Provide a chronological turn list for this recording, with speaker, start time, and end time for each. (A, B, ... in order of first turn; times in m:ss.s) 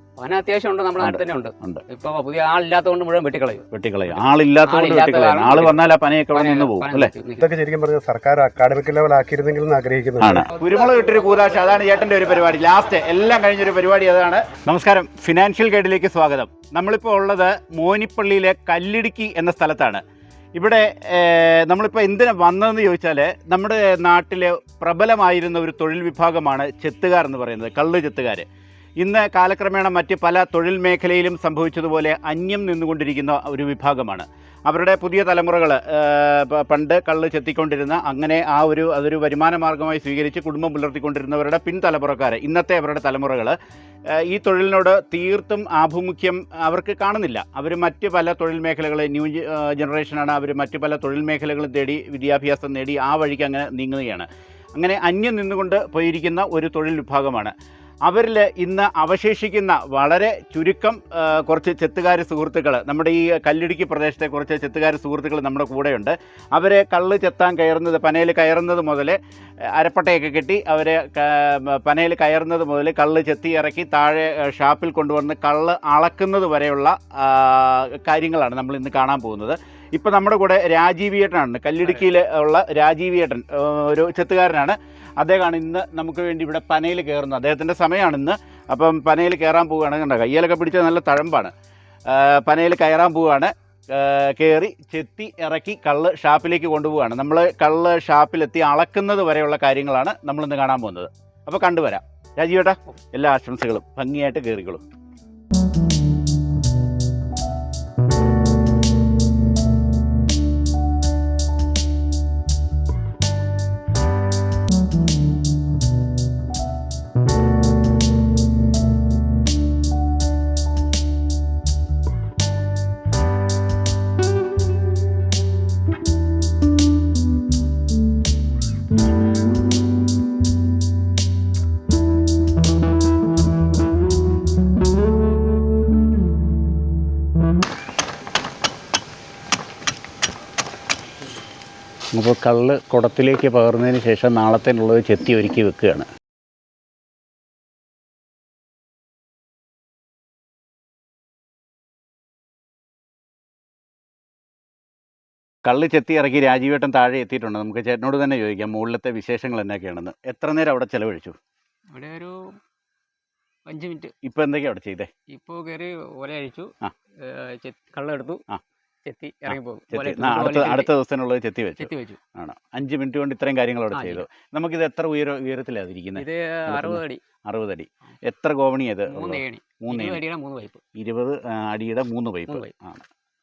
0:00.2-0:07.5 A
0:01.0-0:01.8 B
0:03.7-0:07.1 B
0:07.4-0:10.5 C
0:10.2-0:20.0 B
0:20.6-0:28.5 B
0:29.0-0:43.6 B
0:44.1-0:57.5 B
0:58.0-1:09.2 B
1:09.7-1:31.5 B
1:32.1-1:44.8 B
2:22.1-2:26.1 B
2:35.6-2:41.4 B
2:41.9-2:42.6 A
2:43.7-2:44.2 A
2:44.2-2:45.1 B
2:45.3-2:48.4 A
2:49.1-2:50.9 A
2:49.5-3:00.2 B
2:51.8-2:52.2 A
2:53.9-2:54.3 A
2:56.2-2:57.2 A
2:59.1-3:00.8 A
3:01.0-3:03.0 B